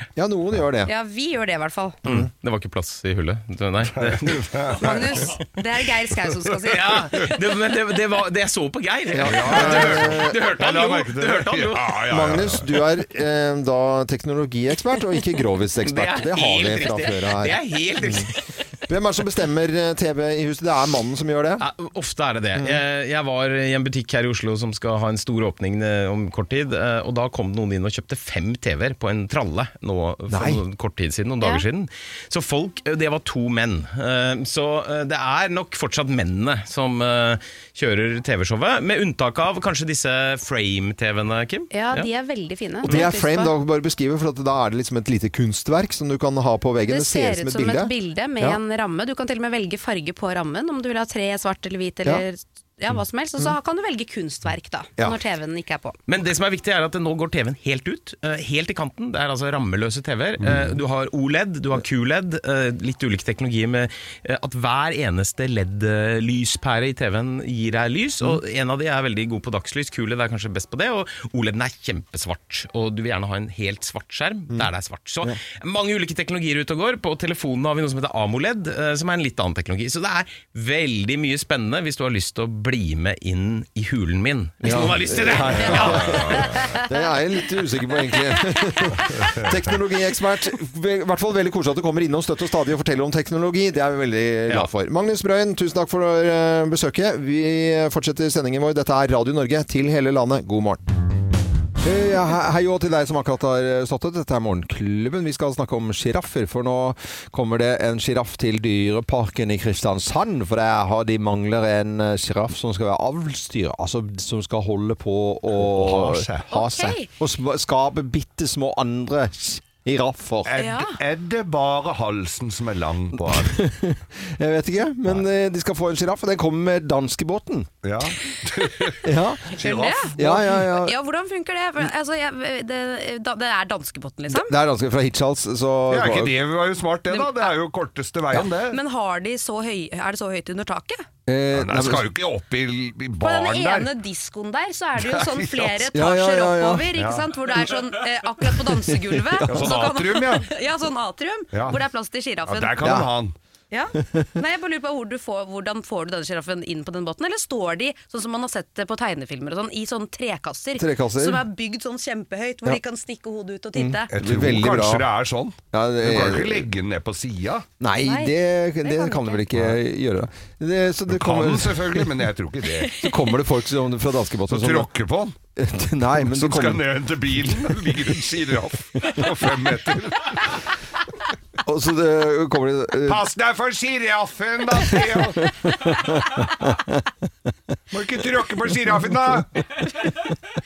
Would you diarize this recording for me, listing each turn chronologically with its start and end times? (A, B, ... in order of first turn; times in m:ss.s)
0:00.2-0:00.9 A
0:00.8-0:02.0 B
0:02.0-0:04.4 C
0:03.9-0:05.3 D
0:04.7-0:07.3 B
0:06.6-0:11.9 C
0:09.1-0:10.3 A
0:09.2-0:12.8 D
0:12.1-0:18.3 A
0:15.8-0:18.4 C
0:18.9-0:21.6 A
0:21.6-0:42.1 C
0:22.5-0:22.8 A
0:30.3-0:30.6 A
0:41.7-0:43.5 B
0:42.8-0:48.6 A
0:46.9-0:56.0 B
0:56.1-1:26.0 C
1:00.4-1:00.7 D
1:24.6-1:40.8 A
1:25.6-1:26.9 B
1:25.7-1:26.5 D
1:29.2-1:29.6 D
1:41.8-2:00.5 A
1:55.6-1:56.5 D
1:56.5-1:57.1 B
2:00.4-2:03.6 D
2:00.6-2:01.0 B
2:03.2-2:07.7 A
2:07.8-2:10.1 D
2:09.0-2:09.5 A
2:09.5-2:14.5 B
2:10.2-2:10.9 A
2:14.3-2:16.3 A
2:15.9-2:18.8 D
2:17.1-2:17.5 B
2:18.7-2:21.0 B
2:21.3-2:22.1 A
2:21.5-2:23.9 D
2:23.2-2:32.7 B
2:25.0-2:25.8 D
2:25.9-2:26.9 A
2:27.0-2:27.2 D
2:28.9-2:29.7 A
2:29.5-2:30.5 D
2:31.5-2:31.8 D
2:32.4-2:33.3 D
2:32.8-2:33.1 A
2:33.7-2:44.1 B
2:34.0-2:34.3 A
2:40.8-2:41.4 A
2:43.8-2:45.0 A
2:44.1-2:47.6 D
2:45.7-2:46.7 A
2:47.8-2:52.1 A
2:48.0-2:49.4 B
2:51.1-2:53.0 D
2:52.9-2:54.9 A
2:54.5-2:55.3 D
2:55.6-2:56.8 A
2:56.2-3:00.6 D
3:01.6-3:03.2 A
3:03.0-3:05.5 D
3:05.4-3:07.0 A
3:07.9-3:09.6 D